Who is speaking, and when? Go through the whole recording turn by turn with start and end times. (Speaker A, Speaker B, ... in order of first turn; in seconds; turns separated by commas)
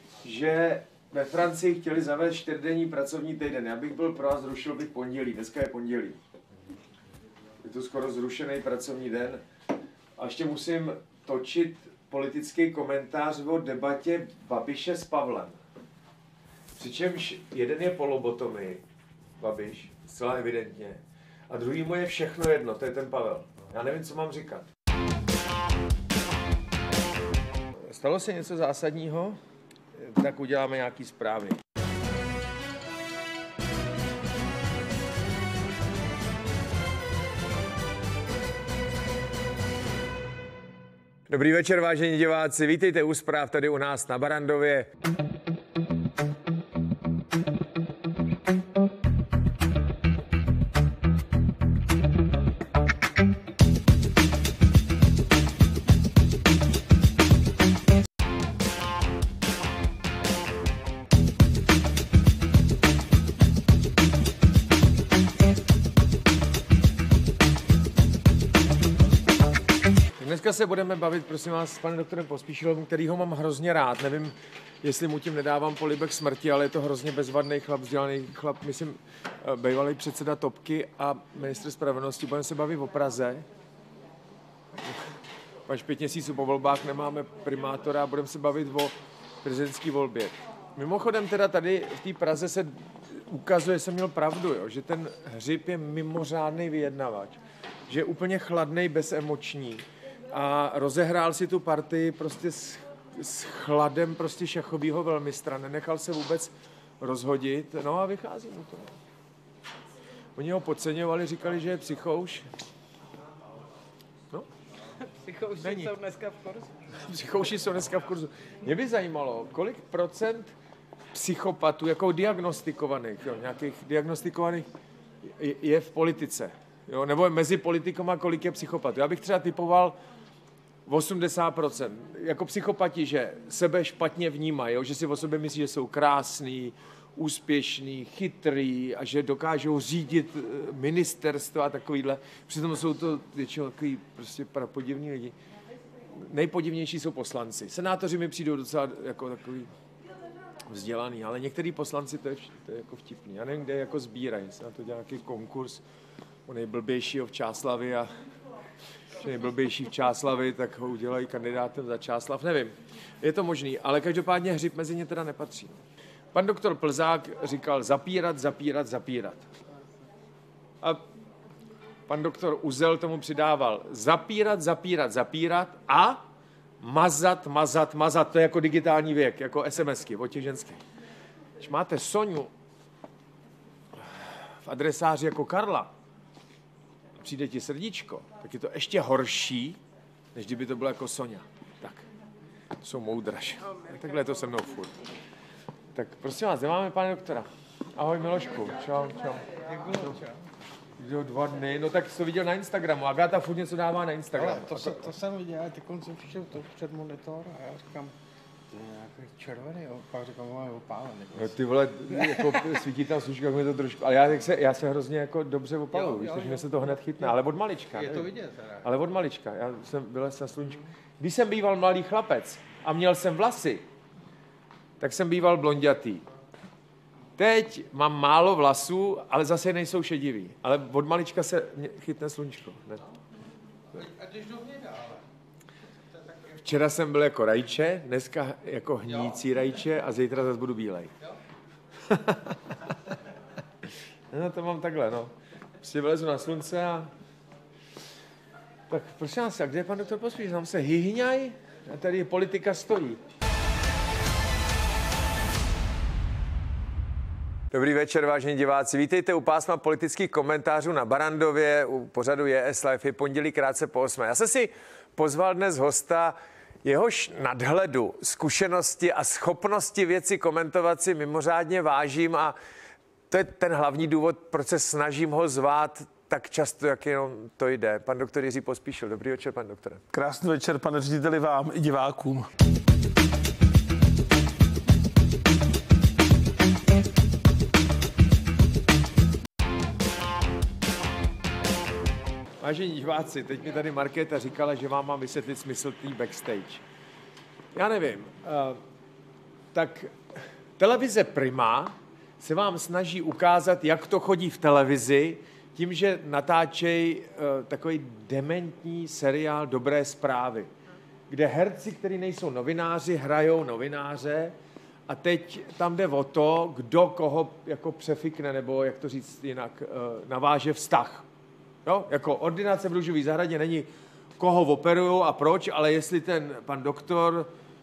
Speaker A: 0.2-6.2, Speaker A: 7.6-9.4, Speaker A: 10.2-15.6, Speaker A: 16.8-18.8, Speaker A: 19.4-24.7, Speaker A: 27.7-29.4, Speaker A: 29.9-31.6, Speaker A: 41.3-44.9, Speaker A: 70.2-83.4, Speaker A: 85.7-108.9, Speaker A: 110.3-112.5, Speaker B: 115.0-116.8, Speaker A: 115.5-116.0, Speaker A: 116.9-120.5, Speaker A: 121.1-124.7, Speaker A: 125.2-130.0, Speaker A: 130.8-145.3, Speaker A: 146.1-149.7, Speaker A: 150.6-155.8, Speaker A: 156.5-158.1, Speaker A: 159.1-165.8, Speaker A: 166.3-169.5, Speaker A: 172.1-176.2, Speaker A: 176.8-180.8, Speaker A: 181.6-182.5, Speaker A: 184.0-185.9, Speaker A: 187.2-189.8, Speaker A: 190.3-192.1, Speaker A: 192.8-195.0, Speaker A: 195.9-199.6, Speaker B: 199.5-200.3, Speaker A: 201.0-205.1, Speaker B: 204.3-208.1, Speaker B: 208.7-211.5, Speaker A: 211.3-223.8, Speaker B: 212.2-212.6, Speaker B: 216.0-216.7, Speaker B: 218.0-218.8, Speaker A: 225.0-226.2, Speaker A: 227.4-233.1, Speaker B: 233.9-235.2, Speaker A: 236.5-241.2, Speaker A: 242.0-242.7, Speaker A: 244.3-247.1, Speaker A: 248.9-253.2, Speaker A: 257.7-272.6, Speaker A: 273.3-280.1, Speaker C: 280.1-282.5, Speaker A: 292.6-296.8, Speaker A: 297.7-298.8, Speaker A: 299.7-300.1, Speaker A: 300.8-310.7, Speaker A: 311.3-314.5, Speaker A: 315.1-321.2, Speaker A: 321.8-327.5